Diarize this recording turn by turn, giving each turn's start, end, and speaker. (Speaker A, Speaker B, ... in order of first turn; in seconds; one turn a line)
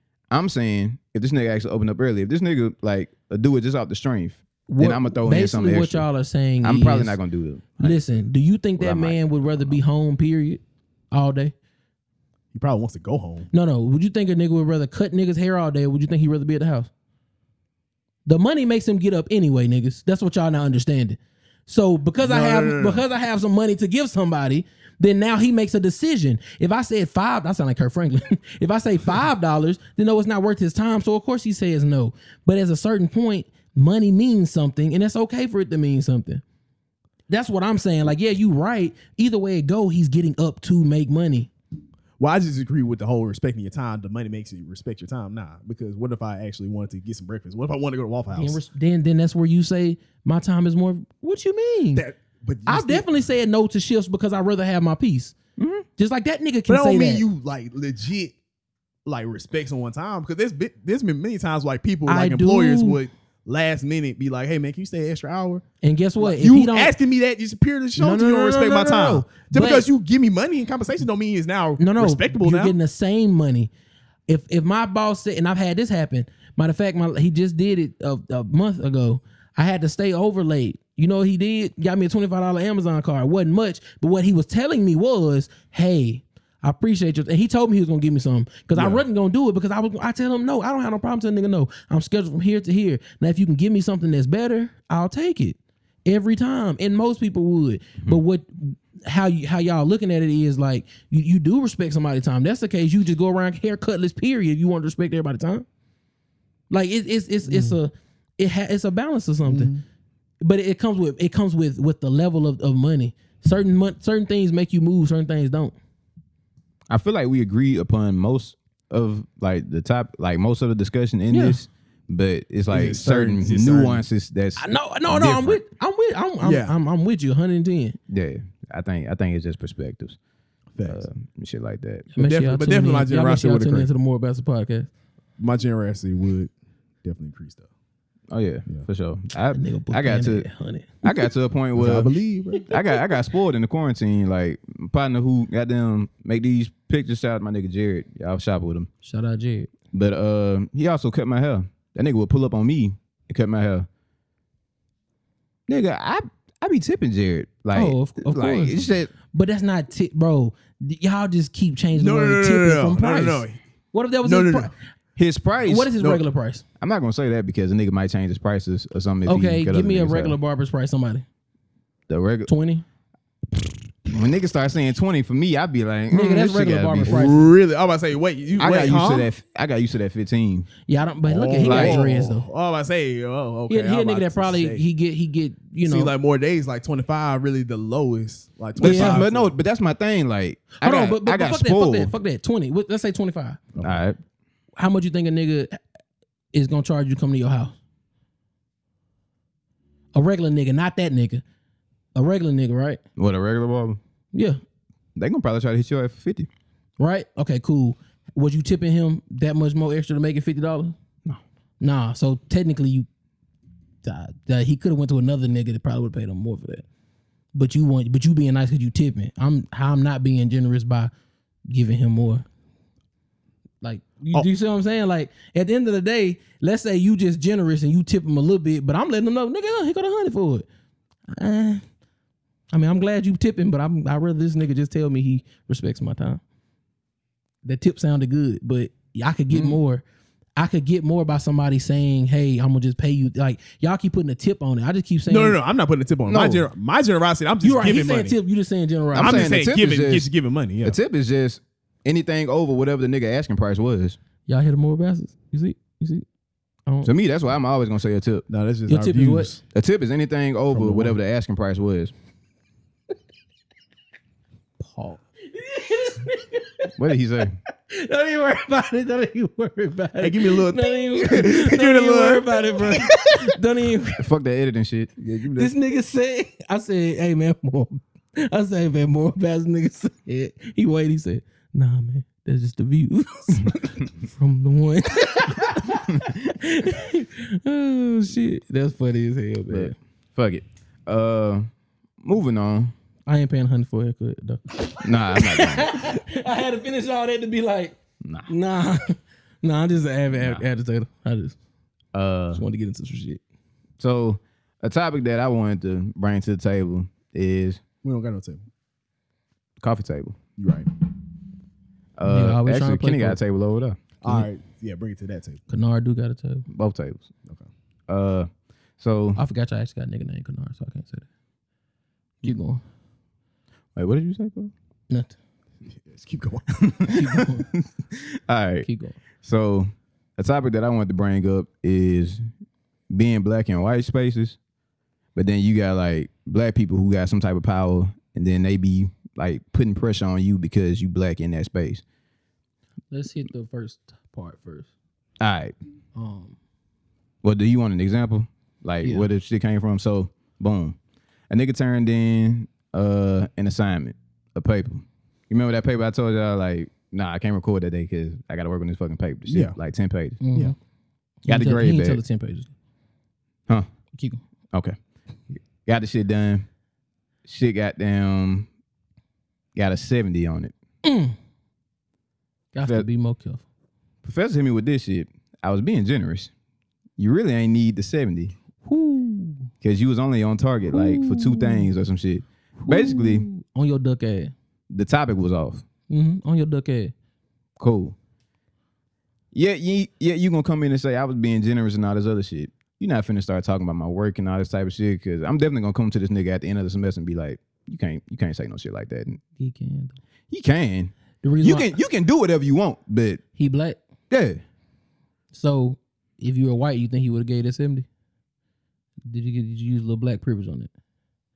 Speaker A: 0.3-6.1
Speaker B: 4.7-7.2
Speaker A: 6.6-8.0
Speaker B: 7.8-11.5
Speaker A: 8.8-9.8
Speaker C: 12.5-13.5
Speaker B: 13.5-16.9
Speaker B: 18.3-36.4
Speaker C: 22.2-23.1
Speaker B: 37.3-41.5
Speaker C: 42.2-48.6
Speaker B: 48.4-52.0
Speaker C: 52.0-53.1
Speaker B: 52.7-55.4
Speaker A: 55.6-55.9
Speaker B: 56.0-57.2
Speaker C: 56.7-58.4
Speaker C: 59.1-65.6
Speaker B: 62.1-63.0
Speaker B: 65.8-66.9
Speaker C: 66.2-72.8
Speaker B: 68.0-69.9
Speaker B: 71.8-73.7
Speaker B: 74.3-105.7
Speaker C: 88.7-89.0
Speaker B: 106.7-109.7
Speaker C: 107.5-107.8
Speaker C: 109.5-109.8
Speaker B: 110.4-115.8
Speaker A: 116.9-125.6
Speaker B: 121.3-121.6
Speaker C: 122.7-124.0
Speaker B: 124.6-128.0
Speaker C: 126.4-126.7
Speaker A: 128.1-130.2
Speaker C: 130.8-131.1
Speaker A: 130.8-132.1
Speaker B: 132.1-134.9
Speaker C: 132.2-133.9
Speaker C: 135.4-136.5
Speaker C: 137.0-137.7
Speaker A: 138.3-140.5
Speaker B: 139.5-141.1
Speaker A: 141.0-142.1
Speaker C: 141.8-142.7
Speaker A: 142.7-148.9
Speaker B: 149.0-149.7
Speaker A: 149.9-153.9
Speaker A: 155.7-159.1
Speaker B: 157.7-164.7
Speaker C: 161.9-163.6
Speaker C: 164.2-164.7
Speaker A: 165.2-165.9
Speaker B: 165.6-166.7
Speaker C: 166.0-166.2
Speaker A: 166.8-170.4
Speaker B: 169.2-171.2
Speaker A: 172.1-172.5
Speaker B: 172.5-172.8
Speaker A: 174.1-177.2
Speaker B: 176.1-177.5
Speaker C: 177.1-179.3
Speaker A: 178.6-180.7
Speaker B: 180.9-182.5
Speaker C: 181.2-184.8
Speaker A: 181.6-182.0
Speaker B: 183.7-186.1
Speaker C: 185.8-189.5
Speaker A: 188.8-192.1
Speaker B: 188.8-189.2
Speaker B: 190.8-193.6
Speaker A: 193.8-194.2
Speaker B: 194.8-195.8
Speaker B: 196.5-197.8
Speaker B: 200.1-201.4
Speaker B: 202.2-203.0
Speaker A: 203.2-204.0
Speaker B: 204.3-204.6
Speaker A: 205.2-206.5
Speaker B: 207.0-211.0
Speaker B: 211.8-213.1
Speaker B: 214.0-216.8
Speaker B: 217.6-221.1
Speaker B: 221.7-222.4
Speaker B: 223.8-230.7
Speaker B: 231.3-231.8
Speaker B: 232.7-236.4
Speaker B: 237.6-240.0
Speaker A: 239.5-239.8
Speaker B: 240.6-245.6
Speaker C: 245.3-248.3
Speaker A: 246.3-246.7
Speaker B: 247.6-249.5
Speaker A: 249.1-250.3
Speaker C: 249.1-251.0
Speaker A: 250.8-254.2
Speaker B: 254.5-256.2
Speaker A: 257.0-258.5
Speaker C: 258.5-259.6
Speaker B: 258.9-259.5
Speaker A: 259.7-262.1
Speaker C: 260.7-261.1
Speaker B: 264.8-266.9
Speaker A: 267.0-267.6
Speaker B: 267.9-274.2
Speaker C: 270.2-273.1
Speaker A: 274.2-275.1
Speaker C: 275.2-275.7
Speaker B: 275.6-289.9
Speaker A: 289.7-291.7
Speaker A: 292.2-292.9
Speaker B: 293.3-298.0
Speaker A: 295.0-295.9
Speaker A: 298.2-298.5
Speaker B: 298.5-301.6
Speaker A: 302.1-302.6
Speaker B: 302.5-303.4
Speaker A: 304.0-307.8
Speaker C: 308.0-308.6
Speaker A: 309.8-310.4
Speaker C: 310.6-310.9
Speaker A: 312.2-314.1
Speaker B: 312.2-313.4
Speaker C: 314.2-315.6
Speaker B: 315.7-316.7
Speaker A: 316.7-317.3
Speaker A: 318.1-319.4
Speaker B: 319.4-321.3
Speaker B: 322.4-322.8
Speaker A: 324.0-324.7
Speaker B: 325.1-325.4
Speaker C: 325.9-326.9
Speaker A: 326.8-328.9
Speaker B: 327.1-327.7
Speaker B: 328.8-329.2
Speaker A: 329.4-332.4
Speaker A: 333.1-334.6
Speaker A: 335.4-342.0
Speaker B: 343.1-344.9
Speaker A: 345.4-345.7
Speaker B: 346.1-346.6
Speaker A: 347.4-351.0
Speaker A: 351.5-360.4
Speaker C: 359.5-359.8
Speaker B: 360.4-360.8
Speaker B: 361.4-362.7
Speaker A: 361.5-362.2
Speaker B: 364.1-364.4
Speaker A: 365.5-366.7
Speaker A: 367.4-368.7
Speaker A: 369.8-370.7
Speaker B: 371.0-371.4
Speaker B: 372.7-373.6
Speaker A: 374.2-376.5
Speaker A: 377.2-378.6
Speaker B: 378.8-379.7
Speaker A: 379.8-383.5
Speaker B: 380.9-381.9
Speaker B: 382.8-384.5
Speaker A: 384.9-385.9
Speaker B: 386.1-387.1
Speaker A: 387.8-388.2
Speaker A: 389.5-399.4
Speaker B: 399.6-400.2
Speaker A: 400.5-403.4
Speaker B: 401.4-402.0
Speaker B: 403.6-404.0
Speaker A: 404.3-404.6
Speaker B: 405.5-408.1
Speaker B: 409.3-410.9